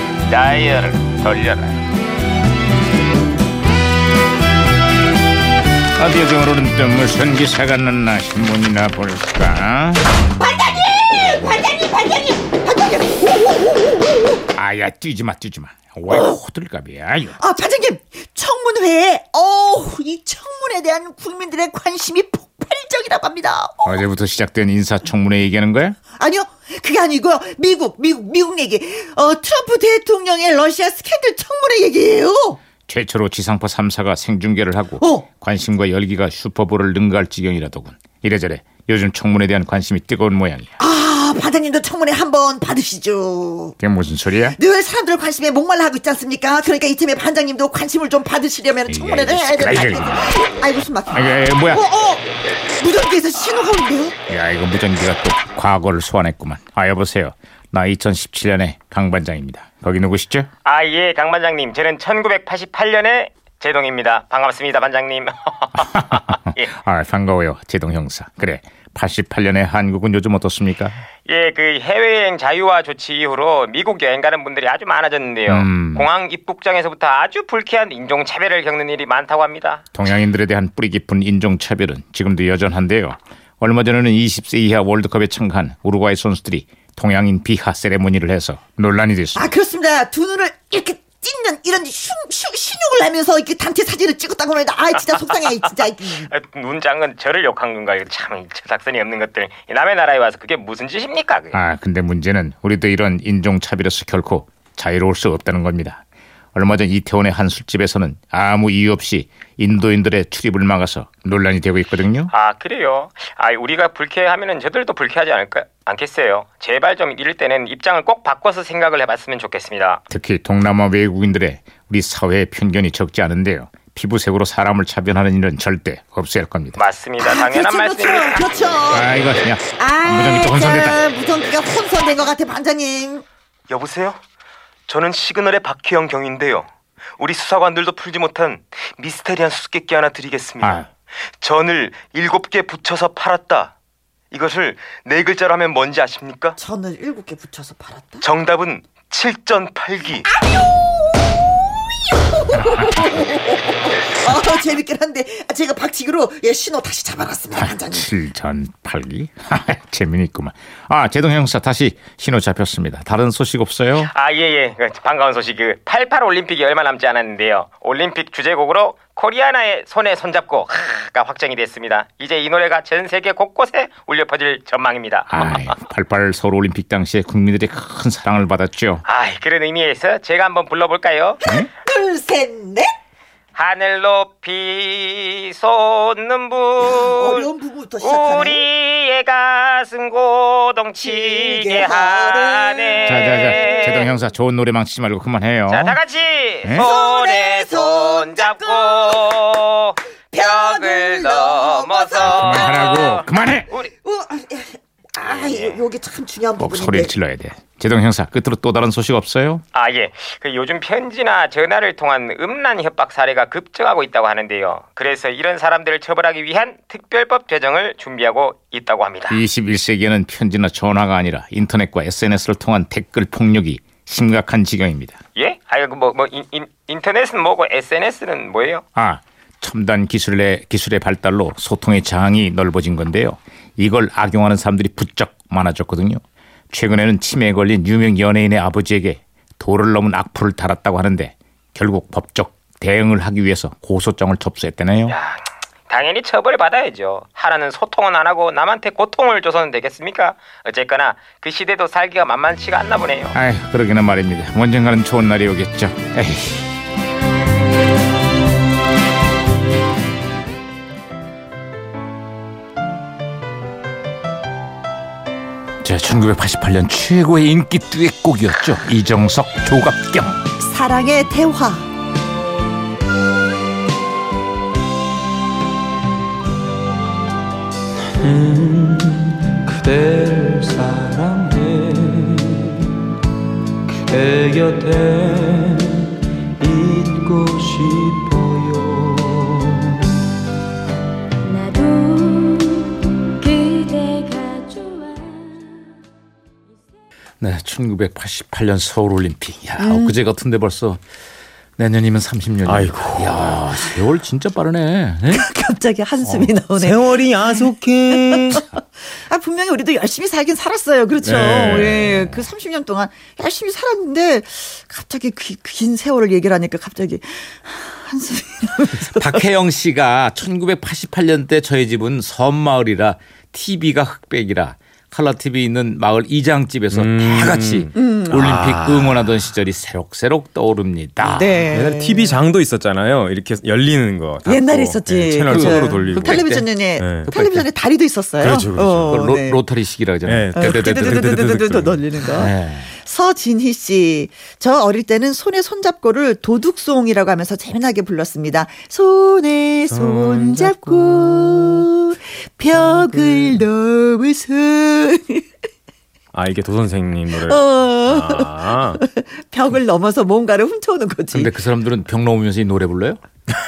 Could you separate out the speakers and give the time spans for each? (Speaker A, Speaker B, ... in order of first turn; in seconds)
Speaker A: 0.3-1.8, 6.0-10.2, 14.5-17.4, 23.8-26.0, 32.9-40.7, 43.8-44.6, 48.9-50.3, 51.1-51.8, 54.3-60.5, 65.8-71.0, 75.5-76.1, 79.9-89.5, 101.5-106.0, 106.5-112.3, 120.1-126.8, 128.9-131.0, 140.6-140.9, 152.7-153.1, 157.6-164.1, 175.3-179.0, 193.1-196.0, 196.6-196.9, 202.2-203.7, 206.6-209.6, 219.3-225.2, 228.9-245.2, 253.3-256.7, 265.8-270.4, 297.4-301.0, 301.8-305.4, 306.2-306.6, 319.1-331.6, 335.5-336.7, 337.2-337.6, 339.1-341.2, 342.3-342.9, 361.3-363.2
Speaker B: 10.3-14.4, 17.4-24.0, 26.2-32.6, 35.0-35.3, 40.8-43.8, 44.5-52.2, 52.8-54.2, 89.3-96.3, 127.2-129.1, 129.7-133.2, 146.6-148.2, 152.3-158.1, 181.4-182.9, 186.8-188.6, 190.9-193.8, 196.8-199.2, 200.3-202.8, 203.8-207.1, 270.6-271.9, 299.8-300.2, 305.3-319.4, 327.9-328.5, 331.2-332.4, 334.5-339.6, 340.6-355.4, 357.3-361.5
Speaker C: 60.6-66.7, 71.2-79.8, 96.2-101.6, 112.3-120.0, 126.8-129.0, 133.7-134.2, 134.9-140.9, 141.4-143.7, 144.3-146.6, 148.2-150.3, 164.0-175.5, 179.1-181.4, 183.5-187.5, 188.0-194.1, 195.7-203.9, 205.2-205.8, 209.7-219.4, 225.3-228.8, 245.1-253.4
Speaker D: 278.5-278.9, 279.6-280.2, 302.6-303.7, 306.8-308.7, 311.2-312.3, 326.9-329.3, 331.7-337.4, 338.4-339.2, 340.2-342.4, 349.9-351.9, 352.8-353.6, 356.3-359.0
Speaker E: 280.2-281.5, 284.3-285.2, 286.9-288.7, 289.3-289.9
Speaker F: 291.4-295.8